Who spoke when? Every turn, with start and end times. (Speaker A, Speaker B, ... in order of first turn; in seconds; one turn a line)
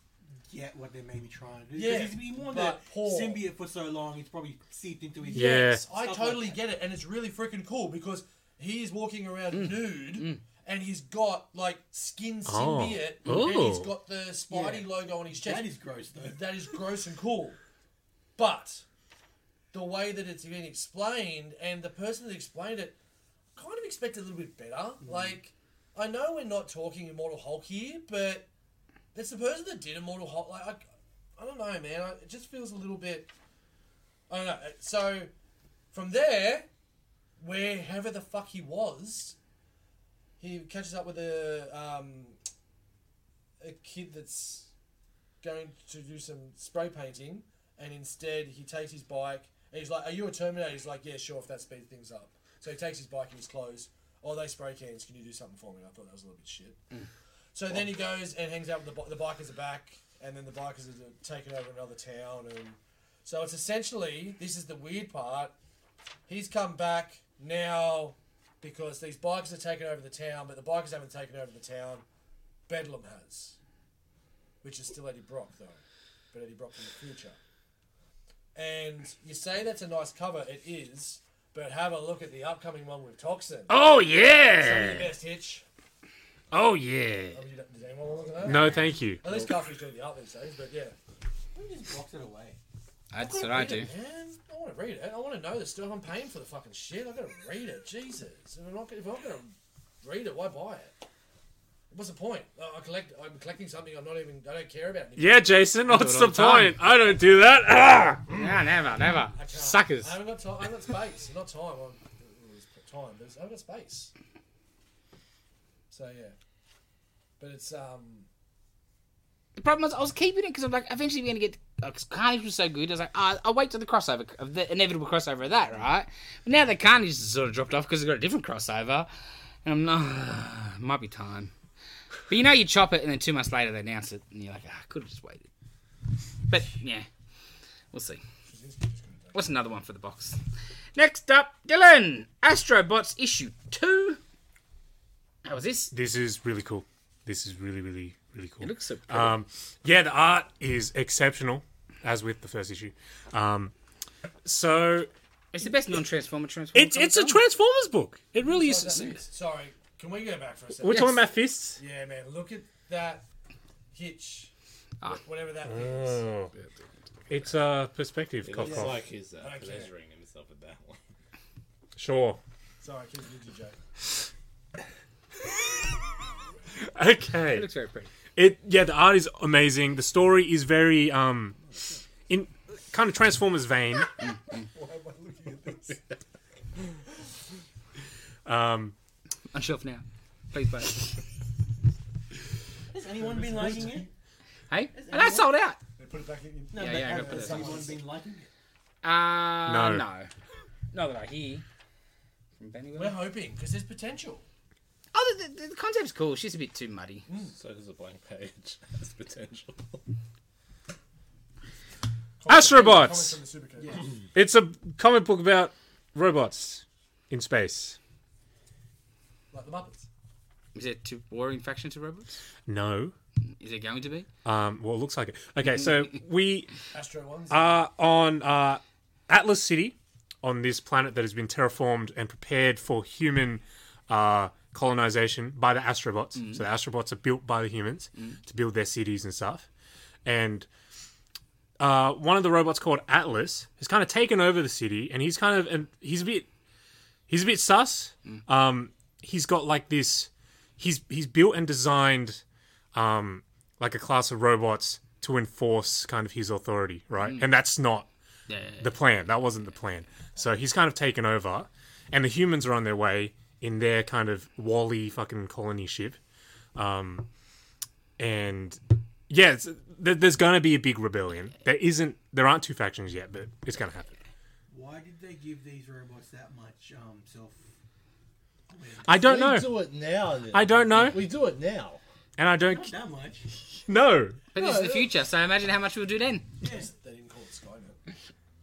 Speaker A: 0.3-6.6
Speaker B: 1.7-3.4
Speaker B: 5.3-17.6
Speaker C: 5.3-5.8
Speaker D: 9.5-10.4
Speaker C: 12.4-13.9
Speaker D: 13.2-13.8
Speaker A: 14.5-16.6
Speaker B: 18.4-18.8
Speaker B: 19.7-23.0
Speaker B: 23.5-28.5
Speaker A: 25.1-25.3
Speaker B: 29.1-33.3
Speaker B: 34.3-35.3
Speaker B: 35.9-36.7
Speaker B: 37.4-39.4
Speaker B: 40.4-42.4
Speaker B: 43.6-44.7
Speaker B: 45.4-56.8
Speaker B: 57.5-65.5
Speaker B: 66.3-72.0
Speaker B: 72.7-73.6
Speaker B: 74.6-75.8
Speaker B: 76.3-77.4
Speaker B: 78.5-83.7
Speaker D: 83.7-85.1
Speaker B: 84.5-85.6
Speaker D: 86.5-87.4
Speaker B: 87.3-91.0
Speaker C: 88.4-89.2
Speaker A: 91.5-92.6
Speaker D: 93.1-93.9
Speaker B: 93.2-101.0
Speaker B: 101.9-105.7
Speaker C: 105.2-108.3
Speaker D: 105.9-106.8
Speaker B: 106.8-107.4
Speaker D: 108.3-110.1
Speaker B: 109.3-114.1
Speaker C: 109.5-110.1
Speaker B: 115.9-116.3
Speaker B: 117.4-118.3
Speaker D: 119.5-129.1
Speaker D: 129.6-131.5
Speaker D: 132.3-135.5
Speaker D: 136.5-137.1
Speaker D: 137.9-138.2
Speaker B: 138.4-139.5
Speaker D: 139.3-140.4
Speaker D: 140.9-144.2
Speaker D: 145.4-145.9
Speaker C: 145.9-153.7
Speaker D: 148.6-149.3
Speaker C: 154.4-155.1
Speaker D: 155.5-157.4
Speaker C: 156.7-159.2
Speaker B: 158.4-163.2
Speaker C: 160.8-161.8
Speaker B: 163.9-164.5
Speaker B: 165.0-166.3
Speaker C: 165.6-166.5
Speaker C: 167.3-169.0
Speaker E: 168.4-171.0
Speaker B: 168.6-169.9
Speaker C: 171.9-172.4
Speaker B: 172.8-173.8
Speaker C: 176.8-177.7
Speaker D: 177.5-178.1
Speaker C: 178.3-181.6
Speaker E: 181.7-182.0
Speaker C: 182.3-184.4
Speaker B: 184.5-186.0
Speaker C: 188.4-188.9
Speaker D: 189.5-191.1
Speaker A: 192.9-194.1
Speaker B: 193.1-194.1
Speaker D: 194.7-195.8
Speaker A: 194.9-195.5
Speaker B: 196.0-198.1
Speaker A: 196.7-198.5
Speaker D: 196.7-197.9
Speaker D: 199.0-200.3
Speaker C: 199.7-200.0
Speaker D: 200.9-201.6
Speaker D: 202.6-203.2
Speaker B: 202.9-204.4
Speaker D: 205.1-207.2
Speaker B: 207.3-207.5
Speaker E: 207.5-210.0
Speaker B: 212.4-214.1
Speaker C: 212.5-213.4
Speaker A: 213.8-214.1
Speaker C: 214.3-218.0
Speaker B: 219.5-220.1
Speaker D: 220.7-222.4
Speaker C: 222.7-223.1
Speaker D: 223.6-224.3
Speaker C: 224.4-226.7
Speaker B: 226.9-227.8
Speaker C: 227.5-239.7
Speaker D: 236.4-236.6
Speaker C: 240.2-240.7
Speaker C: 241.8-246.5
Speaker C: 247.3-252.4
Speaker C: 252.9-258.1
Speaker D: 257.2-257.5
Speaker D: 258.5-258.9
Speaker C: 258.8-266.2
Speaker C: 266.7-267.3
Speaker C: 268.2-274.2
Speaker A: 274.7-277.6
Speaker A: 278.7-279.1
Speaker C: 279.1-279.7
Speaker E: 279.1-282.0
Speaker C: 280.5-281.2
Speaker C: 282.4-282.9
Speaker A: 282.7-283.4
Speaker C: 283.9-284.4
Speaker D: 284.5-286.5
Speaker E: 284.6-285.1
Speaker A: 286.6-286.9
Speaker B: 286.6-288.0